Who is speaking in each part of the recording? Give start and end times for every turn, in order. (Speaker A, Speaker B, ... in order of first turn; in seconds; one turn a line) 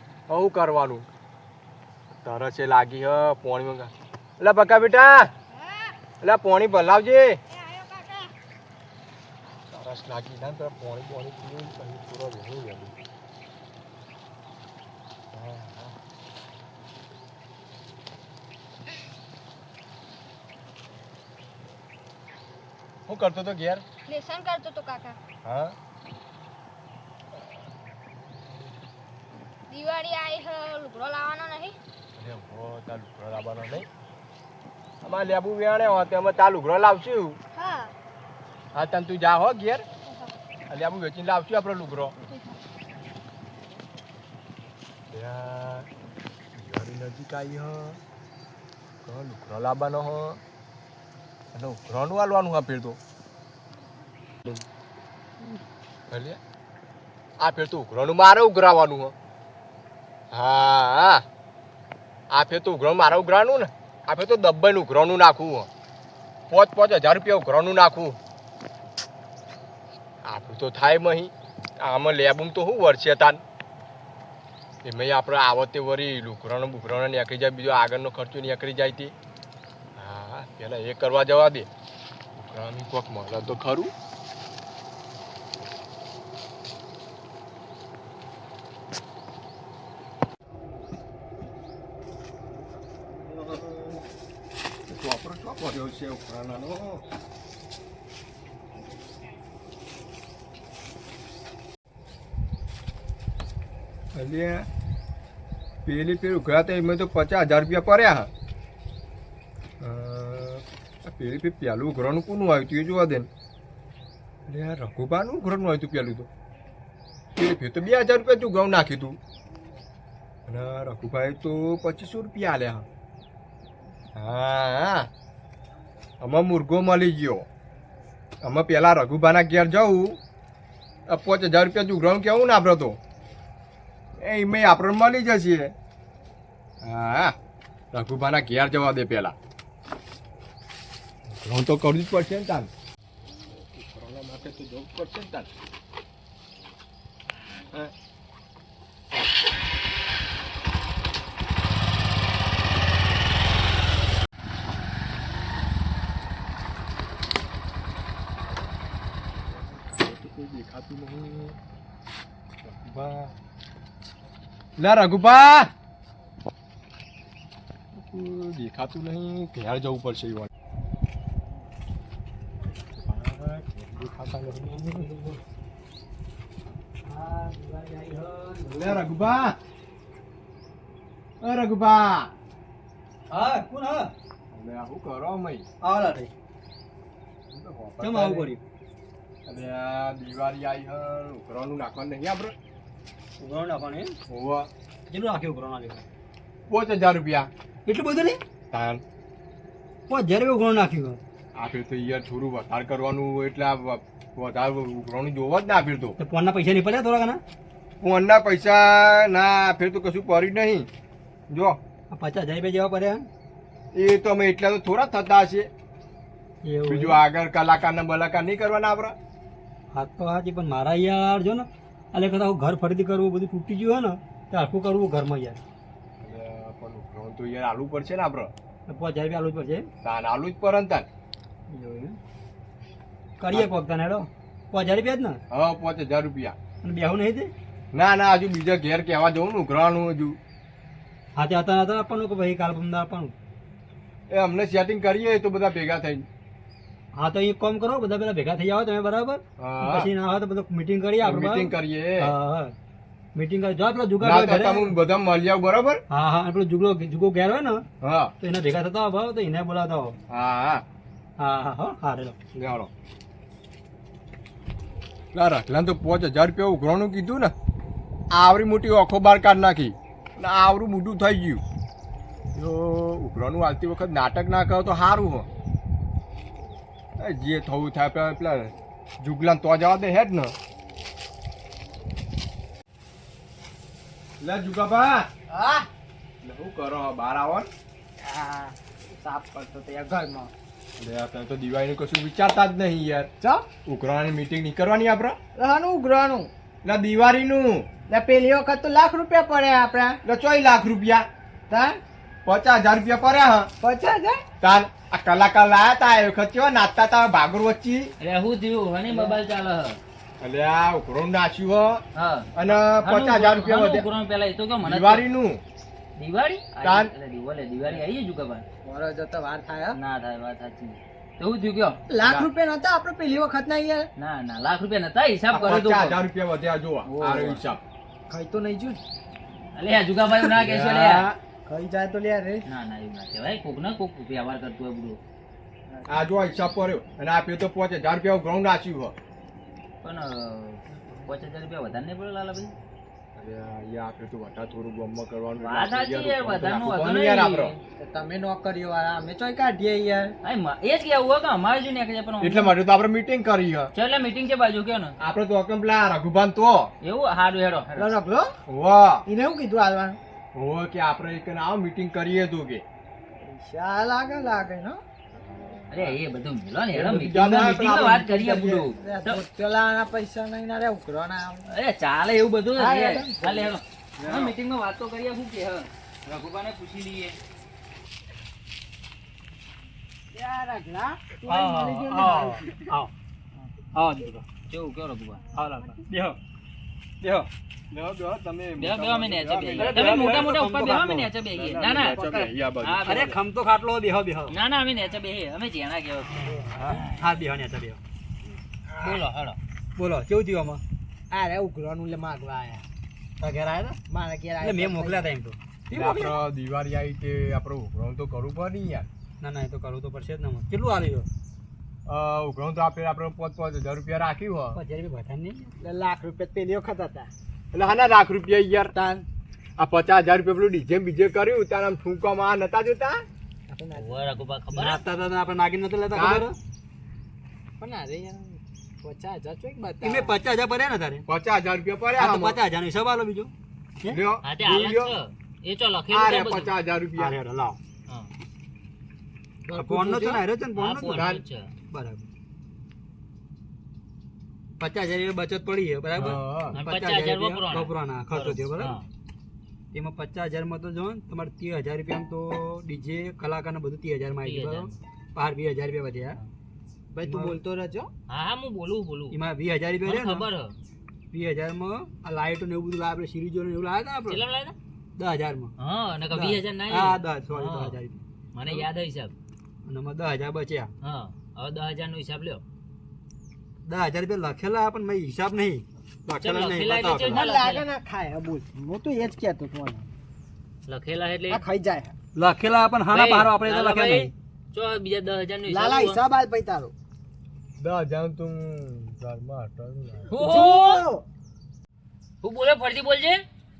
Speaker A: 0.3-1.1
Speaker A: 2.2-5.3
Speaker A: 6.2-7.4
Speaker B: 7.5-8.3
Speaker A: 9.7-13.0
Speaker A: 15.3-15.9
Speaker A: 23.1-23.8
Speaker B: 24.1-25.1
Speaker A: 25.4-25.8
Speaker B: 29.7-31.7
Speaker A: 32.2-33.9
Speaker A: 35.0-37.4
Speaker B: 37.5-37.9
Speaker A: 38.7-39.9
Speaker A: 40.7-42.1
Speaker A: 45.1-45.9
Speaker A: 46.5-48.0
Speaker A: 49.0-50.4
Speaker A: 51.5-53.0
Speaker A: 56.1-56.4
Speaker A: 57.4-59.1
Speaker A: 60.3-61.2
Speaker A: 62.3-65.7
Speaker A: 66.5-68.2
Speaker A: 70.2-73.4
Speaker A: 74.8-79.1
Speaker A: 80.0-81.7
Speaker A: 82.3-83.9
Speaker A: 93.1-94.0
Speaker A: 94.9-97.0
Speaker A: 104.1-104.7
Speaker A: 105.8-108.3
Speaker A: 109.8-113.3
Speaker A: 114.5-116.3
Speaker A: 117.3-119.2
Speaker A: 120.5-122.8
Speaker A: 124.1-125.1
Speaker A: 126.2-127.5
Speaker A: 128.4-130.2
Speaker A: 131.1-133.0
Speaker A: 134.2-135.7
Speaker A: 136.8-137.3
Speaker A: 137.9-139.3
Speaker A: 141.3-142.7
Speaker A: 143.5-145.5
Speaker A: 159.9-161.6
Speaker A: 162.6-163.3
Speaker A: 164.8-165.7
Speaker A: 167.9-170.5
Speaker A: 172.9-175.1
Speaker C: 174.6-175.4
Speaker C: 177.1-179.1
Speaker A: 178.7-179.6
Speaker A: 181.4-182.3
Speaker C: 183.3-184.1
Speaker A: 184.5-185.7
Speaker C: 185.8-186.3
Speaker A: 187.5-188.5
Speaker C: 188.0-188.6
Speaker A: 189.5-192.5
Speaker C: 193.4-194.1
Speaker A: 194.3-194.7
Speaker C: 195.1-196.0
Speaker A: 196.7-197.5
Speaker C: 197.8-198.4
Speaker A: 198.7-199.0
Speaker C: 200.1-201.2
Speaker A: 201.6-206.2
Speaker C: 206.2-207.4
Speaker A: 208.0-210.9
Speaker A: 211.5-211.8
Speaker C: 212.1-213.2
Speaker A: 213.9-215.7
Speaker C: 216.6-217.2
Speaker A: 216.8-219.2
Speaker C: 219.9-225.6
Speaker A: 226.2-228.5
Speaker C: 228.9-229.9
Speaker A: 230.0-231.1
Speaker C: 231.7-232.2
Speaker C: 233.4-235.4
Speaker A: 235.5-236.6
Speaker C: 236.8-237.5
Speaker A: 237.9-240.4
Speaker C: 241.3-243.3
Speaker A: 244.3-246.2
Speaker C: 247.2-252.7
Speaker A: 249.6-250.1
Speaker A: 251.2-252.3
Speaker C: 253.3-254.9
Speaker A: 254.2-256.0
Speaker C: 256.1-257.8
Speaker A: 258.0-258.3
Speaker C: 258.4-260.1
Speaker A: 260.3-260.8
Speaker C: 261.4-262.4
Speaker A: 262.5-262.9
Speaker A: 265.3-267.5
Speaker A: 268.3-271.6
Speaker A: 272.5-275.5
Speaker A: 277.2-280.5
Speaker A: 284.4-285.3
Speaker D: 285.5-285.9
Speaker A: 286.4-287.7
Speaker D: 288.2-290.5
Speaker A: 291.0-293.3
Speaker D: 293.4-293.6
Speaker A: 293.9-295.4
Speaker D: 295.5-296.5
Speaker A: 296.8-297.9
Speaker D: 298.1-300.2
Speaker A: 300.2-301.3
Speaker D: 301.7-302.0
Speaker A: 302.4-303.7
Speaker D: 303.8-304.4
Speaker A: 304.6-308.1
Speaker E: 308.2-310.0
Speaker D: 309.1-309.4
Speaker A: 310.4-312.0
Speaker E: 312.1-315.2
Speaker A: 312.5-314.1
Speaker A: 314.8-315.6
Speaker E: 316.1-318.6
Speaker A: 316.8-317.1
Speaker D: 318.8-320.0
Speaker E: 319.9-322.0
Speaker D: 322.1-324.1
Speaker A: 322.2-322.5
Speaker E: 324.2-326.2
Speaker A: 325.5-327.8
Speaker E: 327.0-327.6
Speaker D: 328.3-329.0
Speaker E: 329.7-331.3
Speaker A: 330.4-331.4
Speaker D: 331.6-332.6
Speaker E: 332.6-335.2
Speaker D: 335.9-336.2
Speaker A: 336.1-339.1
Speaker E: 340.0-342.7
Speaker A: 343.4-347.7
Speaker E: 345.6-347.8
Speaker D: 348.0-350.4
Speaker E: 350.4-352.7
Speaker A: 352.4-353.9
Speaker E: 353.9-355.1
Speaker A: 355.2-356.9
Speaker E: 357.0-358.1
Speaker D: 358.0-358.5
Speaker A: 358.7-359.2
Speaker D: 359.3-360.2
Speaker A: 360.5-362.8
Speaker D: 363.4-365.0
Speaker E: 365.9-369.4
Speaker A: 366.9-368.9
Speaker D: 369.0-371.7
Speaker E: 371.7-377.4
Speaker D: 372.8-373.7
Speaker A: 374.2-374.6
Speaker D: 380.3-382.9
Speaker C: 381.5-383.1
Speaker C: 383.9-384.4
Speaker E: 384.7-385.4
Speaker C: 385.5-386.4
Speaker C: 387.2-387.5
Speaker A: 387.9-390.6
Speaker E: 388.8-392.2
Speaker C: 389.8-391.3
Speaker A: 391.5-393.4
Speaker E: 392.8-393.2
Speaker C: 393.0-394.5
Speaker E: 394.5-397.2
Speaker C: 396.5-398.0
Speaker D: 398.9-399.2
Speaker E: 399.0-399.6
Speaker C: 400.0-400.8
Speaker D: 401.3-402.8
Speaker C: 403.4-404.0
Speaker D: 404.1-405.2
Speaker C: 404.6-406.4
Speaker A: 405.9-409.1
Speaker C: 409.4-411.3
Speaker A: 412.1-414.8
Speaker C: 414.7-415.7
Speaker D: 415.8-417.3
Speaker A: 417.7-418.9
Speaker D: 418.9-419.2
Speaker A: 419.8-423.2
Speaker D: 423.7-424.2
Speaker E: 423.9-425.0
Speaker C: 424.7-426.6
Speaker A: 426.1-426.4
Speaker D: 427.8-430.3
Speaker C: 430.0-431.2
Speaker A: 431.3-432.6
Speaker C: 432.2-433.5
Speaker A: 434.1-435.1
Speaker E: 434.4-436.7
Speaker A: 436.1-437.3
Speaker C: 437.1-437.8
Speaker D: 439.6-440.4
Speaker C: 439.7-441.3
Speaker E: 440.8-441.7
Speaker A: 441.1-441.4
Speaker C: 441.9-442.2
Speaker C: 444.8-448.9
Speaker A: 446.1-446.8
Speaker E: 446.7-449.1
Speaker C: 449.9-456.4
Speaker E: 454.4-454.9
Speaker D: 457.1-458.1
Speaker C: 457.2-457.6
Speaker E: 458.3-459.4
Speaker C: 459.3-460.4
Speaker E: 460.0-460.8
Speaker C: 461.3-464.4
Speaker E: 464.3-464.7
Speaker C: 465.2-465.7
Speaker E: 465.8-468.0
Speaker C: 466.3-468.2
Speaker E: 468.5-469.3
Speaker C: 469.9-470.9
Speaker E: 471.0-472.6
Speaker C: 473.9-477.5
Speaker E: 476.4-477.9
Speaker D: 477.3-480.1
Speaker E: 480.9-481.6
Speaker D: 481.5-482.1
Speaker C: 482.3-484.3
Speaker E: 483.1-486.2
Speaker D: 485.7-486.9
Speaker A: 487.8-490.3
Speaker E: 490.3-491.0
Speaker D: 490.3-491.2
Speaker E: 492.4-493.4